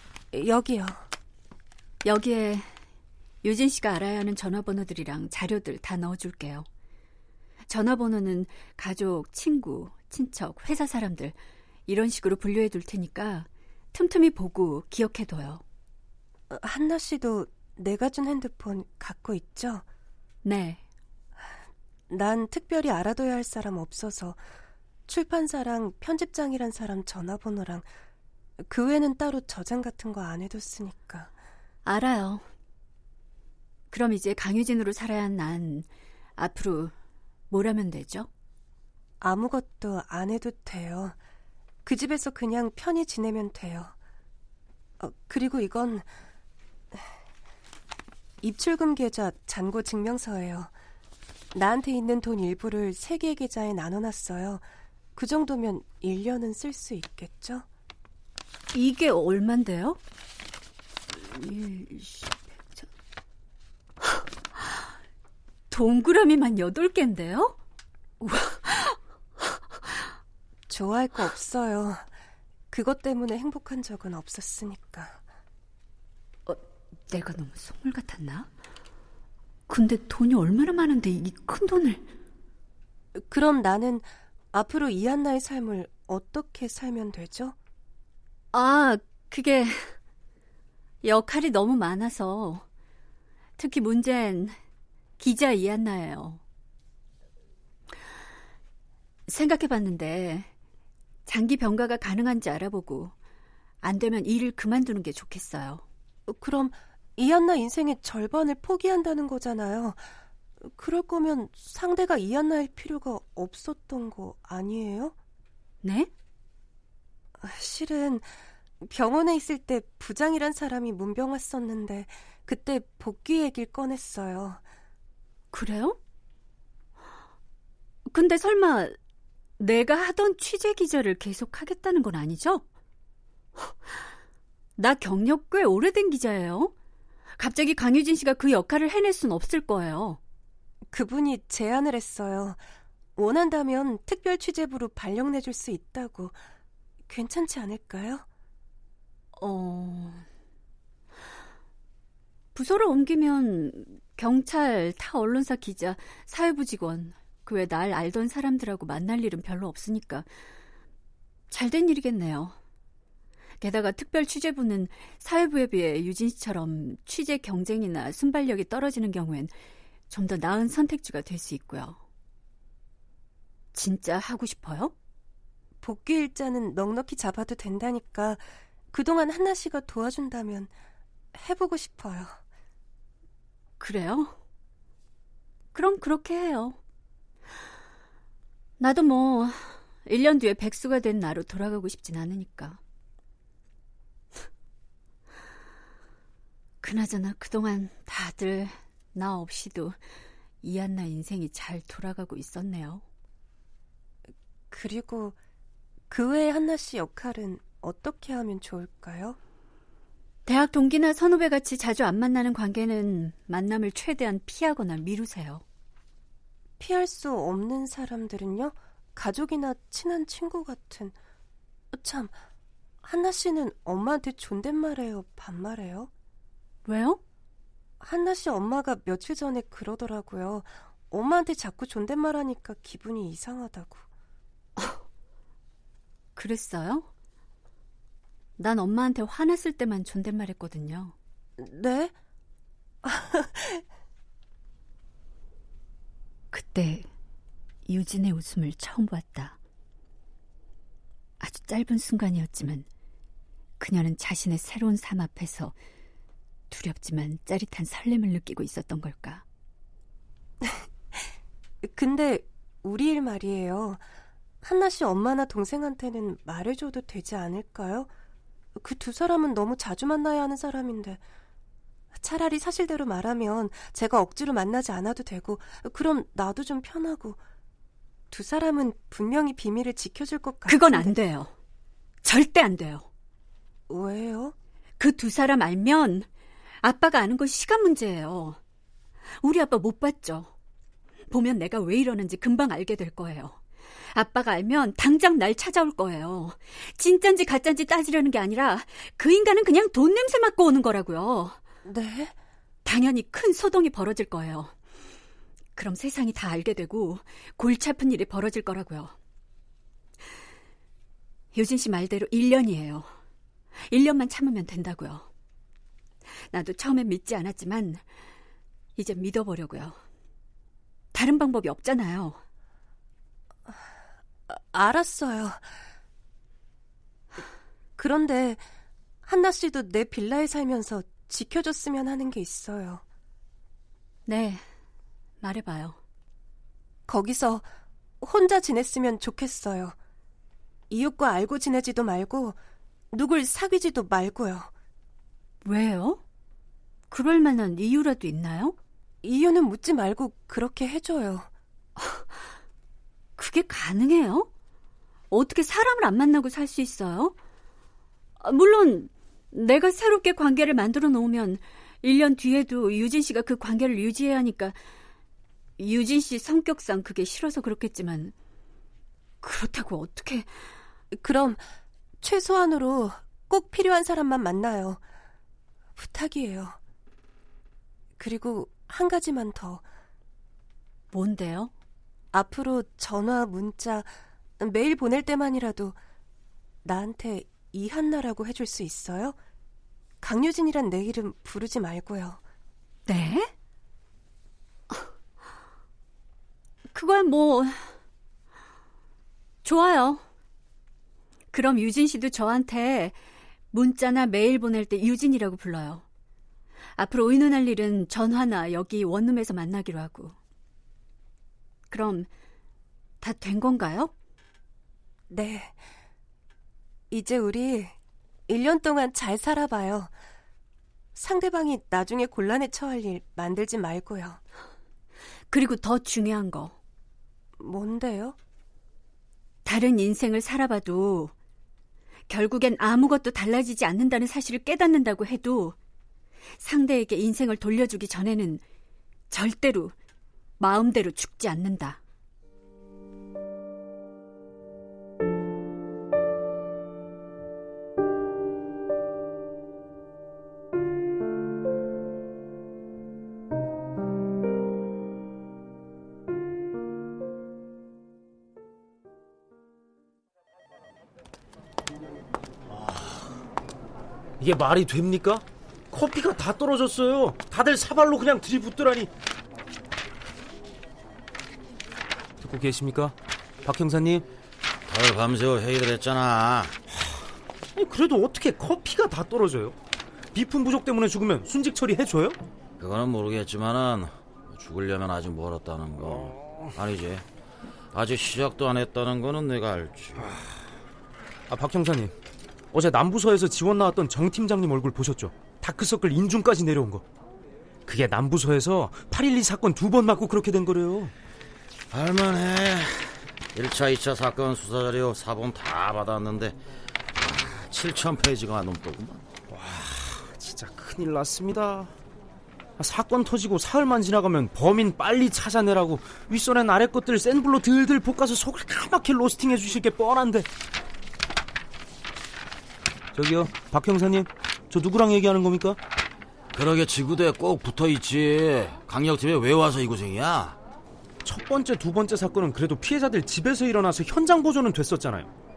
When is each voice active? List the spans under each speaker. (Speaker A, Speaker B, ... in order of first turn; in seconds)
Speaker A: 0.3-1.0, 16.5-19.8, 22.1-24.4, 25.1-27.9, 28.6-31.3, 39.2-41.1, 41.8-43.9, 45.0-46.1, 48.4-50.7, 51.5-54.6, 55.1-57.6, 70.7-72.0, 72.7-75.2, 83.1-87.5, 106.3-110.0, 110.6-115.1, 117.4-118.3, 118.8-124.6, 140.9-142.6, 143.2-146.4, 147.1-148.2, 175.8-180.7, 181.3-182.4, 204.7-205.4, 206.1-209.4, 216.8-221.1, 221.9-222.4, 223.0-226.1, 228.0-234.0, 241.6-242.1, 243.0-243.8, 260.6-261.3, 261.8-264.0, 264.6-268.1, 268.8-271.2, 272.1-277.4, 278.3-281.1, 283.9-284.5, 301.8-302.3, 324.5-325.6, 328.0-328.6, 329.2-333.0, 337.1-337.6, 338.2-339.9, 340.9-342.6, 343.1-344.7, 349.2-351.5, 371.1-371.7, 372.2-375.0, 376.0-376.8, 378.2-379.8, 382.3-386.0, 386.8-389.4, 390.2-392.4, 415.3-415.8, 417.1-417.9, 418.5-420.1, 421.1-424.4, 427.6-428.4
Speaker B: 2.0-2.7, 3.4-6.7, 7.7-11.3, 11.9-15.6, 20.4-20.8, 31.8-32.4, 33.9-36.9, 37.5-38.3, 58.7-60.0, 61.1-62.9, 65.7-67.6, 68.2-69.0, 76.5-78.5, 79.7-82.1, 88.5-89.9, 91.0-92.6, 93.6-94.5, 95.2-96.4, 99.3-100.5, 101.2-103.1, 103.8-105.8, 115.8-116.1, 125.5-126.0, 128.1-129.0, 129.6-132.6, 134.8-136.7, 137.4-140.2, 149.4-150.2, 152.5-160.3, 161.5-162.6, 163.6-169.5, 170.1-172.0, 173.7-174.9, 183.8-184.3, 185.7-186.8, 188.8-192.8, 196.8-200.0, 200.6-203.0, 210.4-215.6, 226.8-227.2, 236.3-237.1, 238.6-241.1, 246.5-247.1, 247.8-249.6, 251.4-252.9, 253.8-255.7, 256.7-259.4, 280.6-281.5, 282.2-283.1, 285.0-286.3, 286.8-288.6, 289.4-290.5, 291.3-293.6, 294.1-301.6, 302.8-304.7, 305.7-309.1, 311.5-313.1, 313.9-315.3, 316.5-318.0, 318.9-320.0, 321.1-322.4, 334.2-334.6, 335.4-336.0, 345.6-346.2, 347.1-348.8, 352.0-352.2, 353.4-354.5, 355.3-357.4, 358.4-364.8, 365.8-368.3, 369.4-370.5, 381.1-381.7, 393.1-393.5, 396.9-397.9, 399.6-400.2, 401.5-403.2, 403.7-406.0, 406.9-410.4, 411.9-412.3, 413.2-414.1, 425.5-426.8, 429.6-431.3, 432.3-435.8, 436.6-438.6, 439.3-439.9, 440.6-442.0
Speaker C: 464.4-469.1, 472.4-474.2, 477.7-479.7, 480.3-482.4, 491.5-492.1, 492.7-497.0, 497.9-501.1, 509.5-511.9, 512.8-520.5, 523.1-525.8, 531.2-535.3
Speaker D: 474.9-476.8, 482.8-487.2, 487.9-490.4, 501.9-506.6, 507.1-509.2, 526.5-530.6